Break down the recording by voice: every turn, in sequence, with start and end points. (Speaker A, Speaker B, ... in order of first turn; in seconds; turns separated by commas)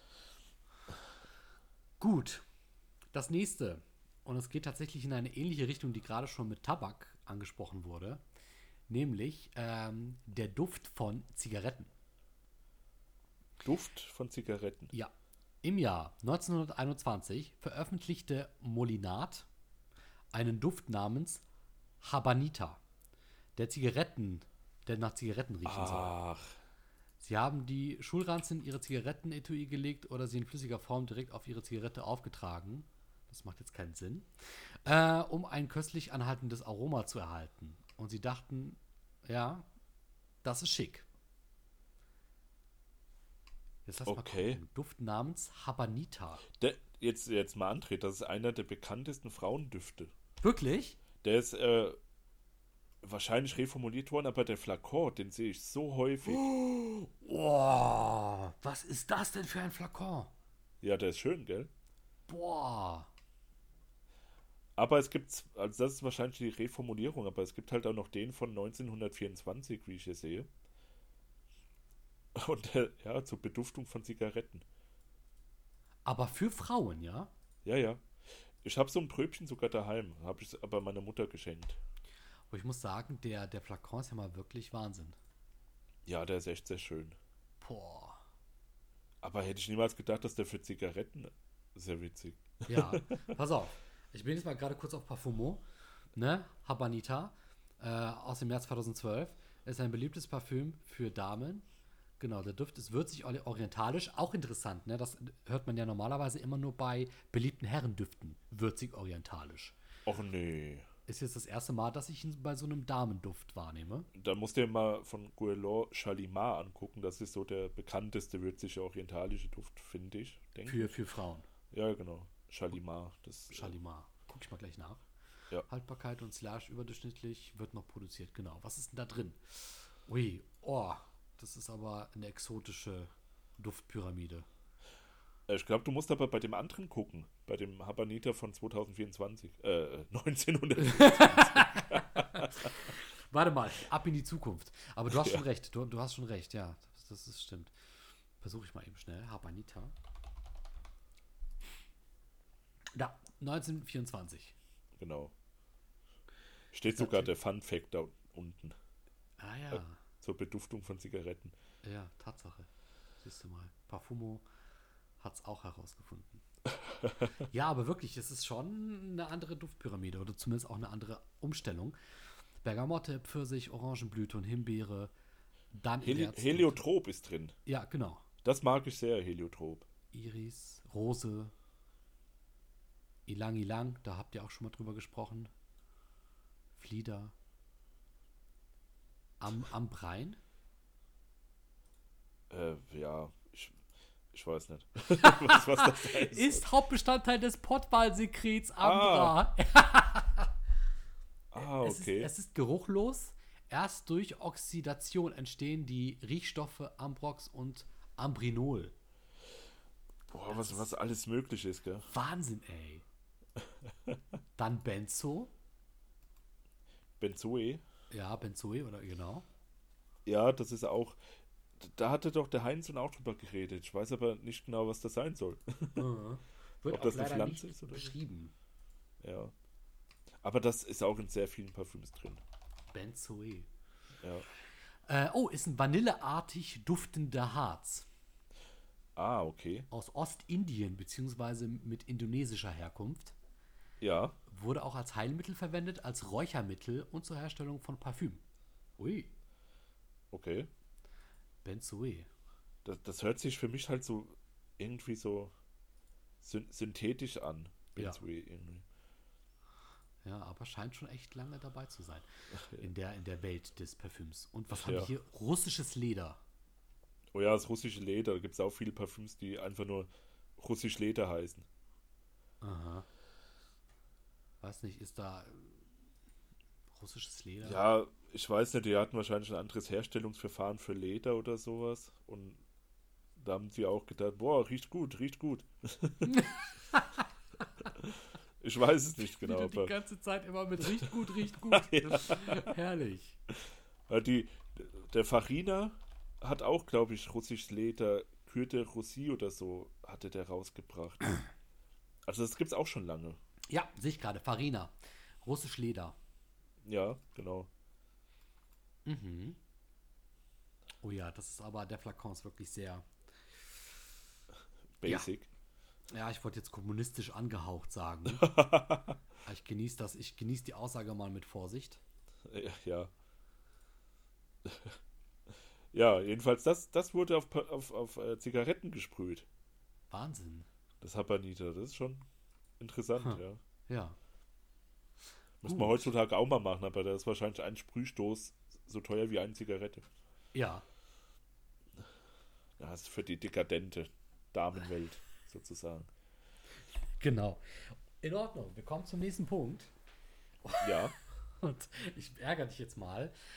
Speaker A: 2.0-2.4, Speaker A: 3.1-8.2, Speaker A: 8.9-11.9, Speaker B: 13.6-14.9, Speaker A: 15.6-19.5, Speaker A: 20.3-21.4, Speaker A: 22.0-22.8, Speaker A: 23.6-26.1, Speaker B: 25.6-26.6, Speaker A: 27.2-39.7, Speaker A: 40.4-41.0, Speaker A: 43.9-46.4, Speaker B: 44.0-44.6, Speaker B: 46.6-50.1, Speaker A: 50.4-51.0, Speaker B: 51.2-52.0, Speaker B: 53.0-56.5, Speaker A: 56.2-60.3, Speaker B: 60.8-61.7, Speaker A: 62.3-63.1, Speaker B: 64.8-70.5, Speaker B: 72.3-74.6, Speaker A: 76.0-77.3, Speaker B: 77.6-78.0, Speaker B: 78.6-81.8, Speaker A: 82.5-85.2, Speaker B: 86.0-87.2, Speaker A: 87.6-88.2, Speaker B: 89.2-93.2, Speaker A: 92.7-95.6, Speaker A: 96.1-101.6, Speaker A: 102.2-109.8, Speaker B: 110.0-110.9, Speaker A: 111.1-114.1, Speaker B: 114.1-120.9, Speaker A: 120.7-121.5, Speaker B: 121.7-123.7, Speaker A: 123.5-125.0, Speaker A: 125.7-134.4, Speaker B: 135.5-142.8, Speaker A: 140.8-147.7, Speaker B: 145.1-145.4, Speaker A: 148.4-149.9, Speaker A: 152.9-154.5, Speaker B: 155.0-155.3, Speaker B: 156.7-158.8, Speaker A: 157.0-157.3, Speaker A: 159.4-160.0, Speaker B: 159.7-161.5, Speaker A: 161.8-162.7, Speaker A: 163.2-164.4, Speaker A: 165.2-166.4, Speaker B: 166.7-167.3, Speaker A: 167.5-171.9, Speaker A: 172.6-175.1, Speaker A: 175.7-176.8, Speaker B: 176.0-177.6, Speaker A: 177.7-178.2, Speaker B: 178.4-179.9, Speaker A: 180.1-181.5, Speaker A: 183.3-185.5, Speaker A: 186.8-187.3, Speaker A: 189.4-190.4, Speaker B: 192.5-193.8, Speaker B: 194.3-196.7, Speaker A: 195.2-200.5, Speaker B: 198.8-199.3, Speaker B: 201.5-202.3, Speaker A: 201.6-208.9, Speaker B: 210.3-212.1, Speaker A: 210.5-210.8, Speaker A: 212.1-213.0, Speaker A: 214.6-215.5, Speaker B: 217.2-217.8, Speaker A: 218.1-219.4, Speaker B: 220.2-221.2, Speaker B: 221.8-226.0, Speaker A: 225.9-228.5, Speaker B: 226.9-228.1, Speaker B: 229.2-229.5, Speaker B: 230.4-232.4, Speaker A: 232.9-233.7, Speaker A: 235.1-238.1, Speaker B: 239.2-239.9, Speaker A: 239.9-243.3, Speaker B: 244.0-244.4, Speaker A: 244.5-248.4, Speaker A: 249.0-249.3, Speaker B: 250.3-250.7, Speaker A: 251.6-252.3, Speaker B: 252.8-255.5, Speaker B: 256.4-258.8, Speaker A: 257.9-258.2, Speaker A: 260.2-266.4, Speaker B: 262.5-262.9, Speaker B: 264.7-265.1, Speaker B: 267.3-271.6, Speaker A: 272.6-273.1, Speaker A: 274.6-275.7, Speaker A: 276.9-277.8, Speaker B: 277.6-282.6, Speaker B: 283.4-286.4, Speaker A: 286.2-287.3, Speaker B: 287.9-289.9, Speaker A: 289.3-293.4, Speaker B: 290.9-292.7, Speaker B: 294.1-301.2, Speaker B: 302.3-303.4, Speaker A: 303.7-306.1, Speaker B: 306.8-307.7, Speaker A: 309.1-309.6, Speaker A: 311.0-313.1, Speaker B: 315.0-315.5, Speaker A: 316.1-318.5, Speaker B: 318.3-319.2, Speaker A: 319.4-322.0, Speaker B: 322.4-323.1, Speaker B: 324.6-325.0, Speaker B: 325.9-329.4, Speaker A: 330.1-330.7, Speaker B: 331.0-332.2, Speaker B: 332.8-333.6, Speaker A: 333.2-334.2, Speaker B: 335.6-340.1, Speaker A: 335.6-336.1, Speaker A: 340.5-340.8, Speaker B: 342.8-346.1, Speaker A: 347.2-349.9, Speaker A: 350.6-353.3, Speaker B: 350.8-351.1